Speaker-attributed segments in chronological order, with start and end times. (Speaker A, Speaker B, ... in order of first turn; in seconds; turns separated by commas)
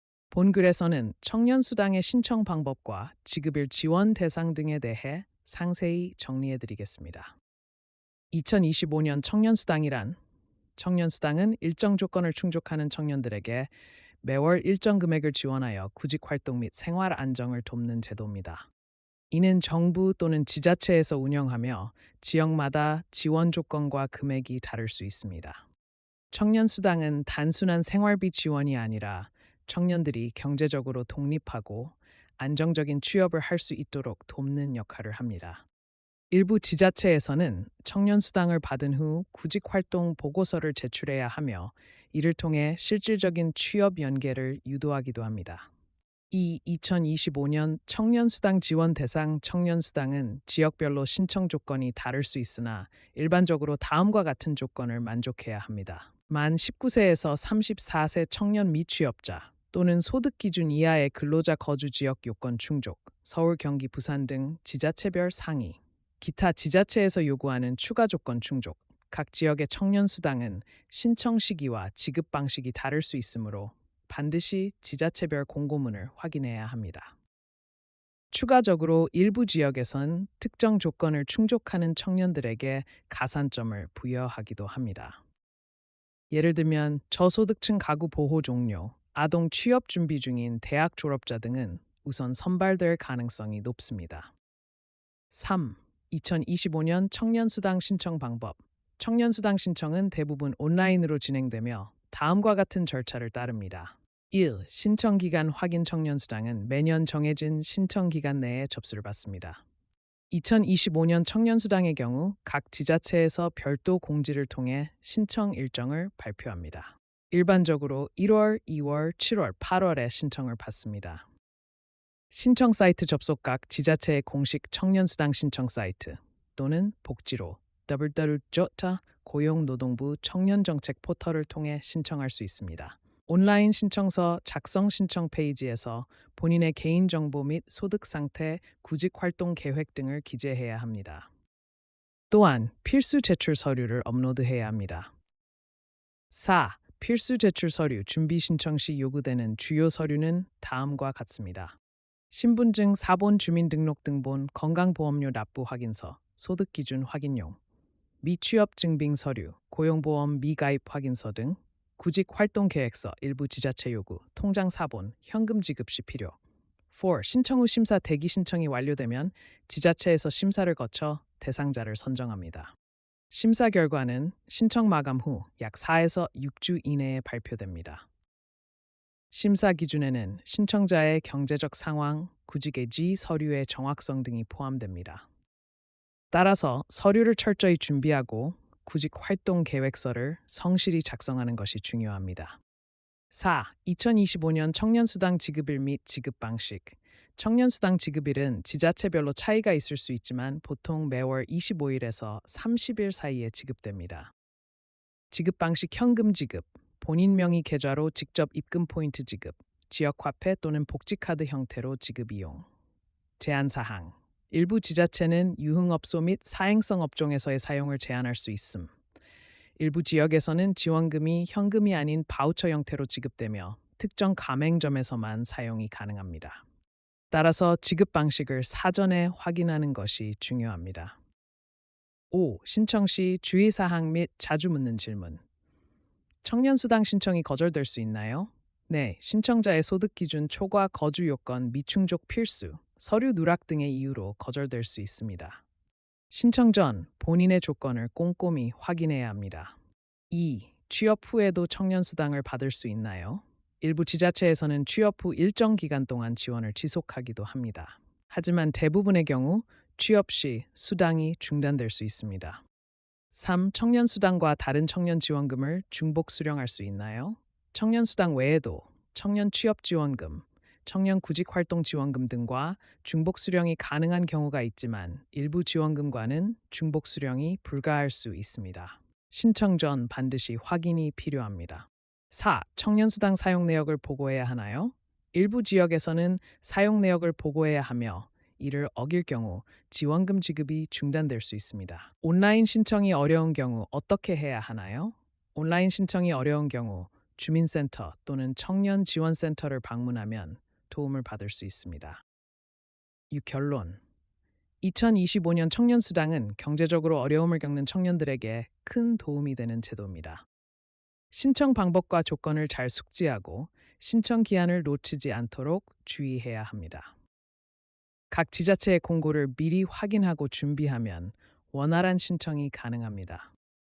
Speaker A: 0.3-7.3, Speaker A: 8.3-10.2, Speaker A: 10.8-13.7, Speaker A: 14.2-18.7, Speaker A: 19.3-25.6, Speaker A: 26.3-35.6, Speaker A: 36.3-45.7, Speaker A: 46.3-77.2, Speaker A: 78.3-85.2, Speaker A: 86.3-94.3, Speaker A: 95.3-109.6, Speaker A: 110.3-121.3, Speaker A: 122.3-141.3, Speaker A: 142.3-145.1, Speaker A: 146.3-151.8, Speaker A: 152.3-157.6, Speaker A: 158.2-166.4, Speaker A: 166.9-172.7, Speaker A: 173.3-178.1, Speaker A: 179.3-185.3, Speaker A: 186.3-192.6, Speaker A: 193.3-204.3, Speaker A: 205.3-212.7, Speaker A: 213.4-218.9, Speaker A: 219.8-226.6, Speaker A: 227.3-231.2, Speaker A: 232.3-235.4, Speaker A: 236.4-245.6, Speaker A: 246.3-249.8, Speaker A: 250.3-262.6, Speaker A: 263.3-302.2, Speaker A: 303.3-304.0, Speaker A: 304.8-310.5, Speaker A: 311.3-317.1, Speaker A: 318.3-323.5